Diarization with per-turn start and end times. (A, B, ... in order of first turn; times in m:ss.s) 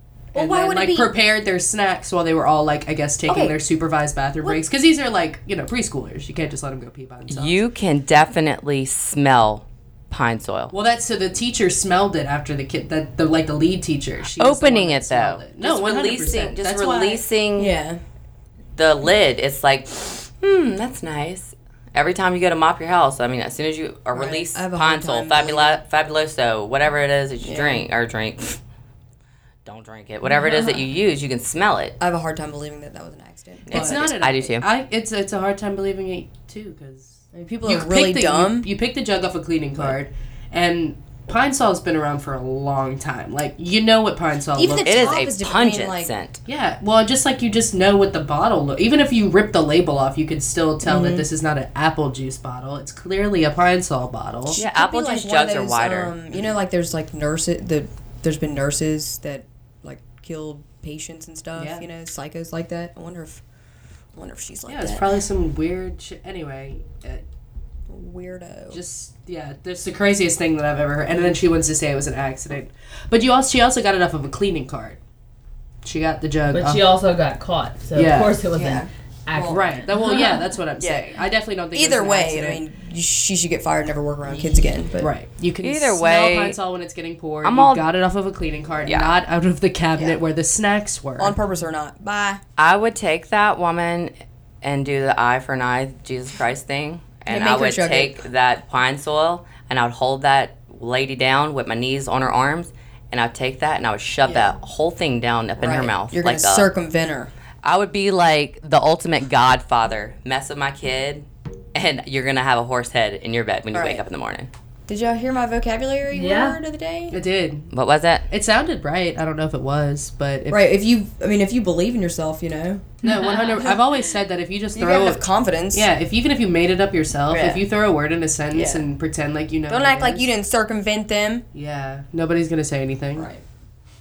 0:00.3-0:01.1 A
0:00.3-0:07.6 B
0:03.3-0:03.6 A
0:07.3-0:10.7 C
0:10.7-0:17.2 B
0:14.4-0:17.8 C
0:17.6-0:18.0 A
0:18.8-0:28.6 C
0:24.1-0:25.8 A
0:27.4-0:27.8 A
0:29.6-0:32.0 C
0:30.3-0:30.8 D
0:32.0-0:34.1 A
0:33.7-0:34.7 C
0:33.7-0:45.2 B
0:37.3-0:38.7 A
0:44.6-0:46.1 A
0:44.8-0:46.4 C
0:46.5-0:54.6 B
0:50.8-0:51.3 A
0:54.5-1:03.4 A
0:54.6-0:56.1 C
1:01.6-1:01.9 B
1:04.2-1:05.1 A
1:04.7-1:07.2 B
1:07.9-1:08.8 A
1:08.7-1:15.0 B
1:15.8-1:16.8 B
1:16.5-1:20.4 D
1:17.9-1:18.4 B
1:18.5-1:19.8 A
1:19.4-1:22.6 B
1:20.8-1:21.1 A
1:21.7-1:25.1 A
1:24.3-1:31.4 B
1:25.6-1:26.6 C
1:27.4-1:27.8 C
1:28.8-1:29.1 C
1:31.2-1:32.4 A
1:32.6-1:46.7 C
1:37.3-1:38.2 A
1:44.2-1:44.5 A
1:45.6-1:47.3 A
1:47.6-1:54.5 C
1:53.7-1:54.0 A
1:54.9-1:57.2 A
1:56.1-1:56.6 D
1:57.1-1:57.7 B
1:57.7-1:58.2 C
1:58.3-2:00.7 B
2:00.5-2:03.0 A
2:03.0-2:10.3 B
2:03.0-2:03.7 D
2:04.8-2:05.9 A
2:07.3-2:07.6 A
2:08.5-2:08.9 A
2:09.7-2:11.5 A
2:11.5-2:13.3 B
2:13.2-2:13.4 A